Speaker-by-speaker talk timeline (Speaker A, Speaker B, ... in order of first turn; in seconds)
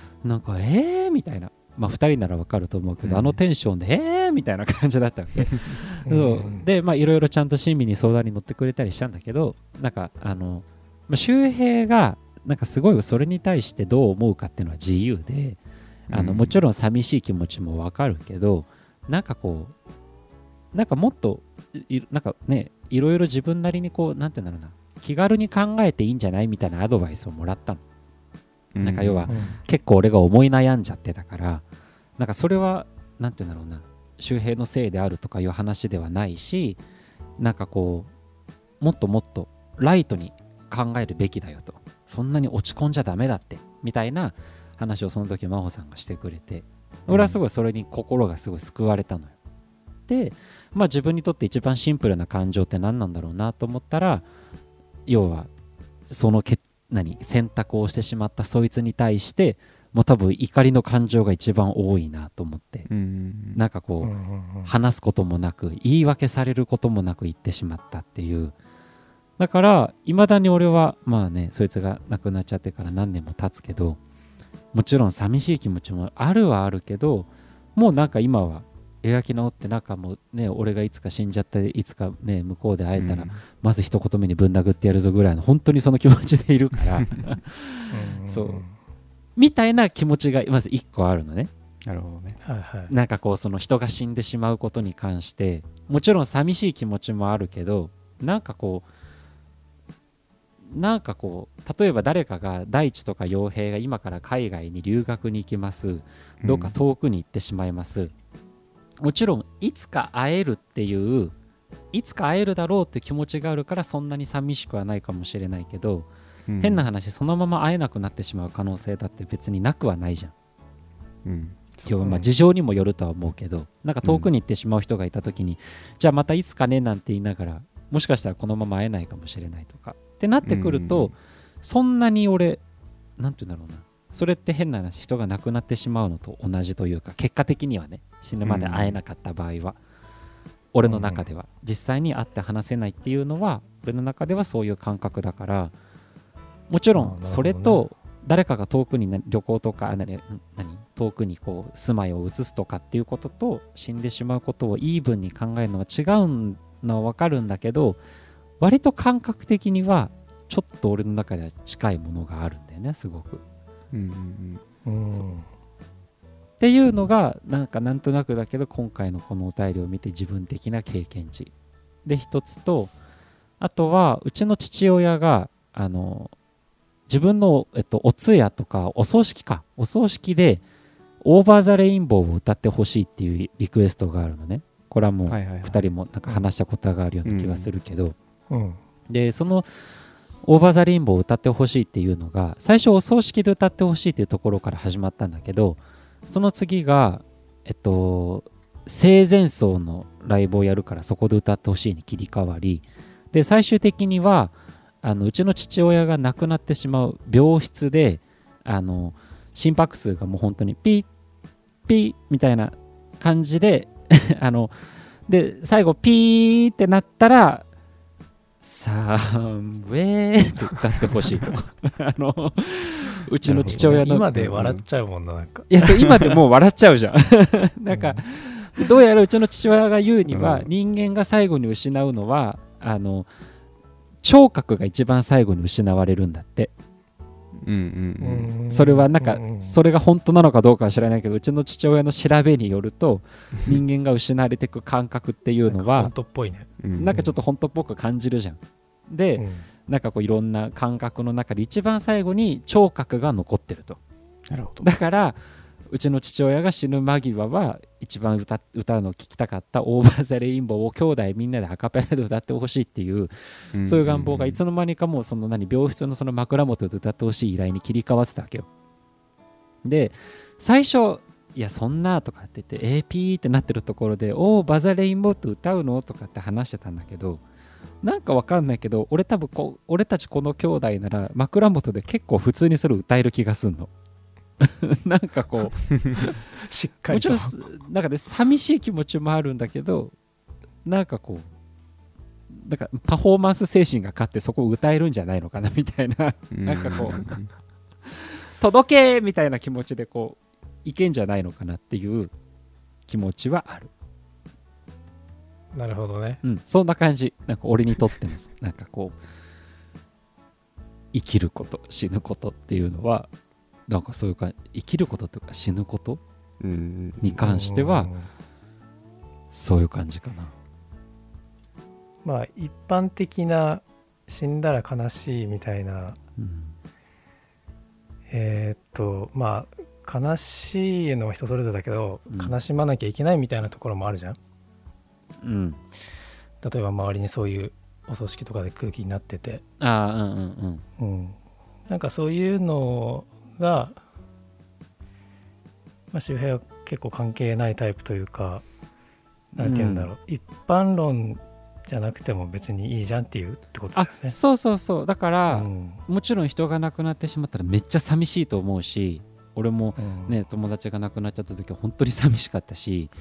Speaker A: 0.2-15.6, 16.1-19.7, 20.7-27.8, 28.8-31.6, 32.2-36.8, 37.4-38.1, 38.8-49.3, 50.1-54.2, 55.1-55.5, 56.1-62.9, 63.5-64.1, 64.6-68.5, 69.4-74.0, 74.7-88.6, 89.3-91.5, 92.9-98.9, 100.7-108.1, 109.0-111.3, 111.9-116.1, 116.6-120.3, 121.8-132.6, 133.2-139.8, 140.7-145.7, 146.7-158.0, 158.6-163.4, 166.6-171.5, 172.0-172.9, 173.6-176.3, 177.1-180.6, 181.2-188.2, 189.1-189.9, 190.4-211.1, 211.8-217.7, 218.6-224.3, 225.7-233.3, 234.2-236.7, 238.7-246.1, 247.0-254.0, 254.8-268.7, 269.8-277.4, 278.0-283.9, 284.6-286.3, 287.1-290.1, 290.8-291.5, 292.5-297.3, 298.1-302.3, 303.1-303.9, 306.4-309.2, 311.1-313.3, 313.9-316.2, 317.2-318.1, 319.5-320.5, 326.4-326.8, 335.4-335.8, 339.8-340.8, 349.6-350.1, 353.9-363.1
Speaker B: 3.0-3.4, 16.1-16.6, 28.7-29.3, 47.1-47.4, 62.9-63.6, 82.9-83.4, 86.9-87.3, 91.8-92.4, 106.4-106.7, 116.5-116.8, 121.2-122.2, 124.0-124.3, 130.4-131.1, 138.4-139.0, 163.9-164.6, 185.3-185.9, 187.2-187.7, 223.4-224.8, 225.9-226.3, 230.3-230.7, 237.6-238.5, 246.8-247.2, 254.5-254.9, 263.7-264.6, 296.5-297.5, 316.6-317.4
Speaker C: 6.0-6.7, 29.3-29.6, 64.0-64.7, 87.9-88.7, 92.4-92.9, 140.8-141.2, 146.9-147.8, 164.8-165.5, 188.5-188.8, 223.6-225.7, 227.9-228.2, 238.2-239.8, 245.7-246.7, 249.4-249.7, 286.2-287.5, 305.7-306.4, 317.4-318.3, 322.2-326.2, 328.3-334.4, 336.6-339.6, 341.0-344.0, 346.1-348.6, 349.5-354.3, 355.5-356.0, 360.0-360.4